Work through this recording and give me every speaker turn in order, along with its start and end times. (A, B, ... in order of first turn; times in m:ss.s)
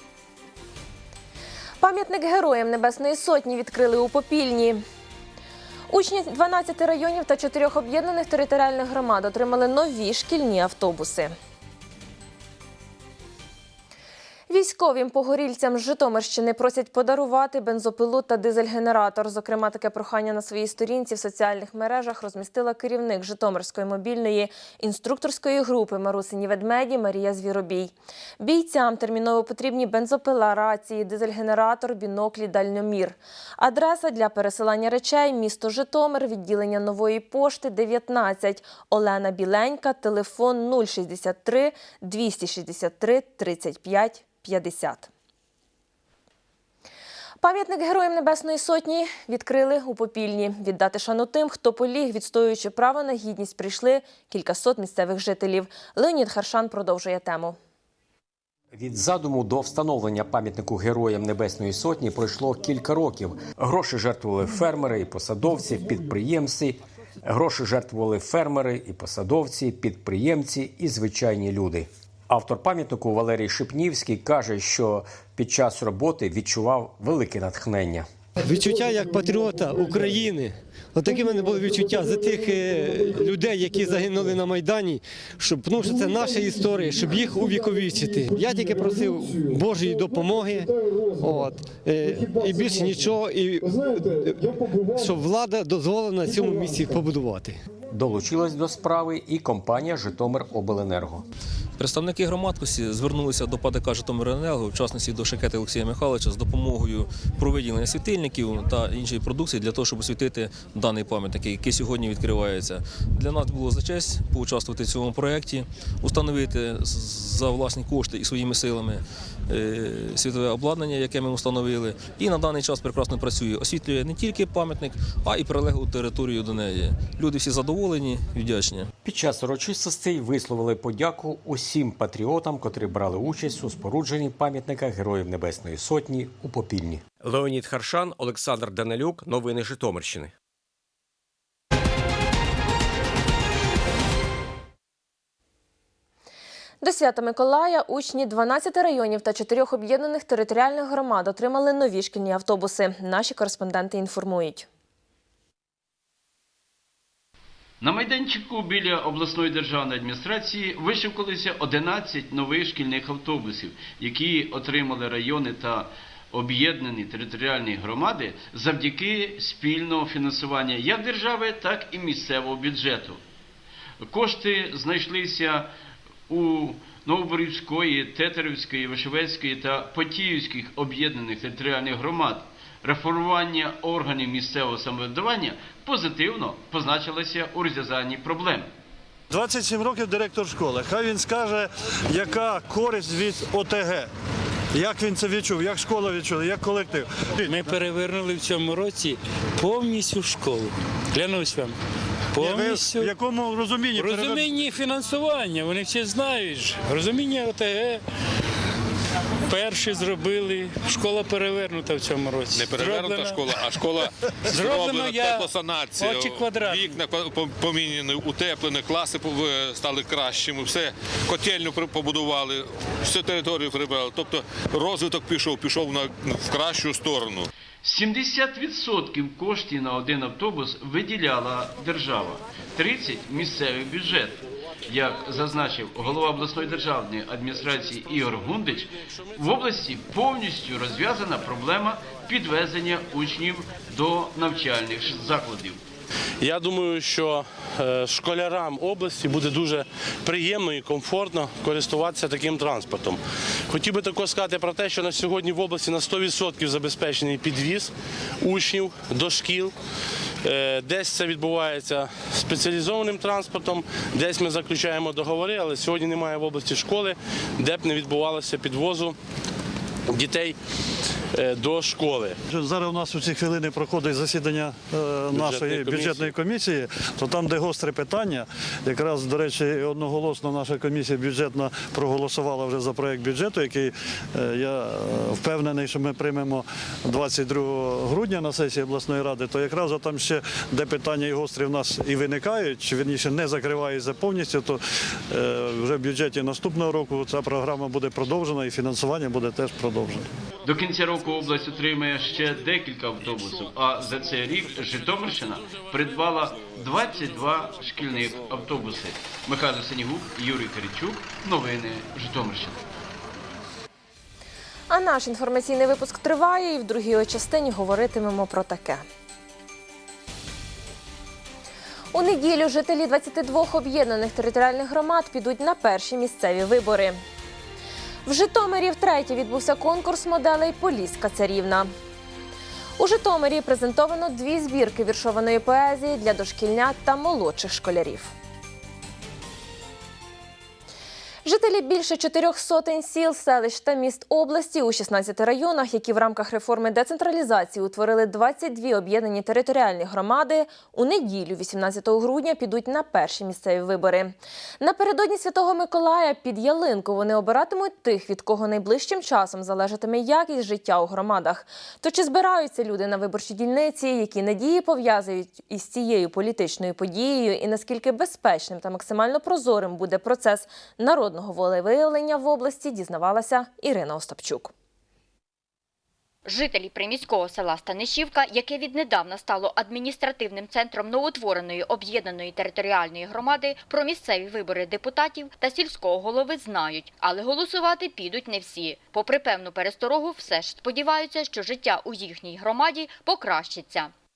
0:01.8-0:04.8 A
0:05.9-0:11.3 A
0:14.5-0:45.1 A
0:47.4-0:57.6 A
0:58.7-1:18.1 B
1:18.4-1:37.6 C
1:37.9-1:41.2 B
1:41.8-2:08.9 D
2:09.0-2:17.0 B
2:17.2-2:20.3 E
2:26.8-2:34.7 A
2:37.8-2:53.2 F
2:54.0-2:55.7 F
2:56.3-3:08.7 F
3:09.3-3:14.1 G
3:14.7-3:17.7 G
3:17.5-3:21.8 H
3:22.3-3:23.1 H
3:22.4-3:24.5 G
3:24.0-3:28.0 H
3:29.5-3:33.7 H
3:32.5-3:47.5 I
3:34.5-3:37.0 H
3:47.8-4:05.8 F
4:06.4-4:19.8 J
4:20.4-4:29.2 J
4:30.1-4:30.6 J
4:31.3-4:32.4 J
4:32.5-5:00.3 G
4:35.3-4:36.4 J
5:00.6-5:12.8 F
5:14.9-5:19.0 A
5:22.1-5:27.2 A
5:28.2-5:31.9 A
5:33.0-5:38.3 A
5:41.4-6:14.7 A
6:16.4-6:34.1 K